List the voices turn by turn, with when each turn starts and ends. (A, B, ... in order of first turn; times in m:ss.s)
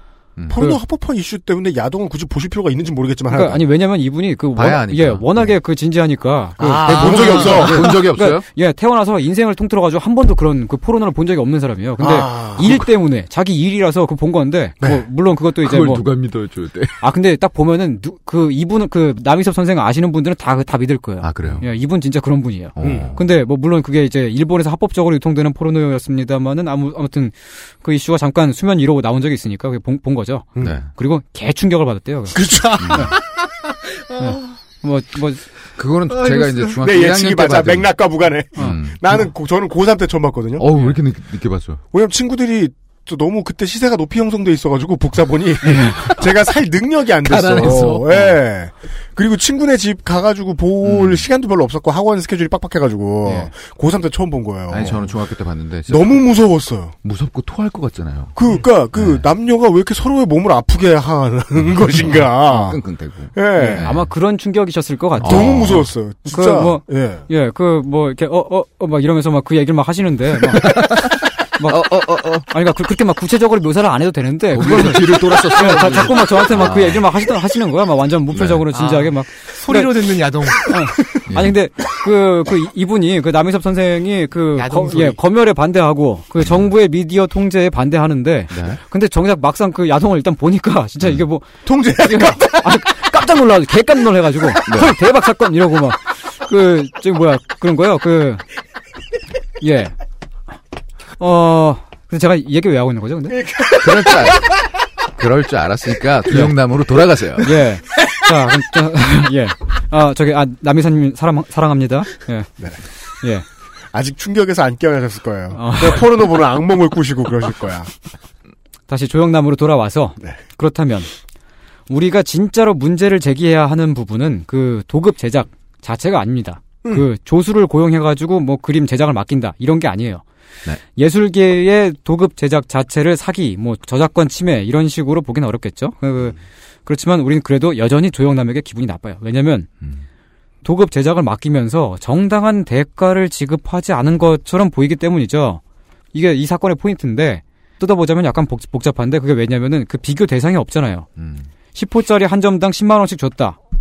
0:00.5-0:03.6 A
0:03.3-0:16.0 B
0:04.6-0:05.5 C
0:06.6-0:07.9 A
0:06.8-0:08.4 C
0:12.0-0:12.8 A
0:15.6-0:17.0 C
0:17.0-0:33.1 B
0:21.2-0:21.7 C
0:22.8-0:23.3 C
0:22.8-0:23.1 A
0:30.6-0:30.9 C
0:32.3-0:33.4 A
0:32.8-0:33.1 C
0:34.2-0:35.4 B
0:35.8-0:38.0 C
0:36.2-0:36.7 D
0:36.8-0:40.6 A
0:38.6-0:39.2 C
0:40.6-0:41.8 C
0:41.9-0:55.1 A
0:45.6-0:46.1 B
0:47.2-0:48.4 C
0:50.8-0:51.2 C
0:53.2-0:53.5 B
0:54.7-0:56.4 C
0:55.9-0:57.0 A
0:57.0-0:59.2 C
0:58.4-1:02.8 A
1:02.0-1:04.1 C
1:03.3-1:03.8 A
1:03.6-1:11.8 B
1:05.2-1:05.9 C
1:05.2-1:07.2 A
1:10.7-1:12.5 C
1:12.5-1:20.0 B
1:14.5-1:17.1 C
1:18.3-1:18.7 C
1:18.7-1:21.2 D
1:20.6-1:38.4 B
1:21.3-1:21.5 C
1:24.5-1:25.2 D
1:26.4-1:26.6 C
1:28.5-1:28.8 C
1:31.6-1:33.0 A
1:34.6-1:35.0 C
1:39.6-1:39.9 B
1:41.2-1:43.4 B
1:43.4-1:44.4 A
1:43.7-1:47.6 C
1:46.3-1:46.5 B
1:47.4-1:52.5 B
1:53.2-1:53.4 B
1:53.9-1:57.9 A
1:55.5-1:56.0 B
1:58.9-2:01.1 B
2:01.9-2:10.2 B
2:10.9-2:19.7 B
2:20.6-2:25.6 B
2:26.1-2:31.1 B
2:31.2-2:31.5 C
2:31.7-2:33.6 B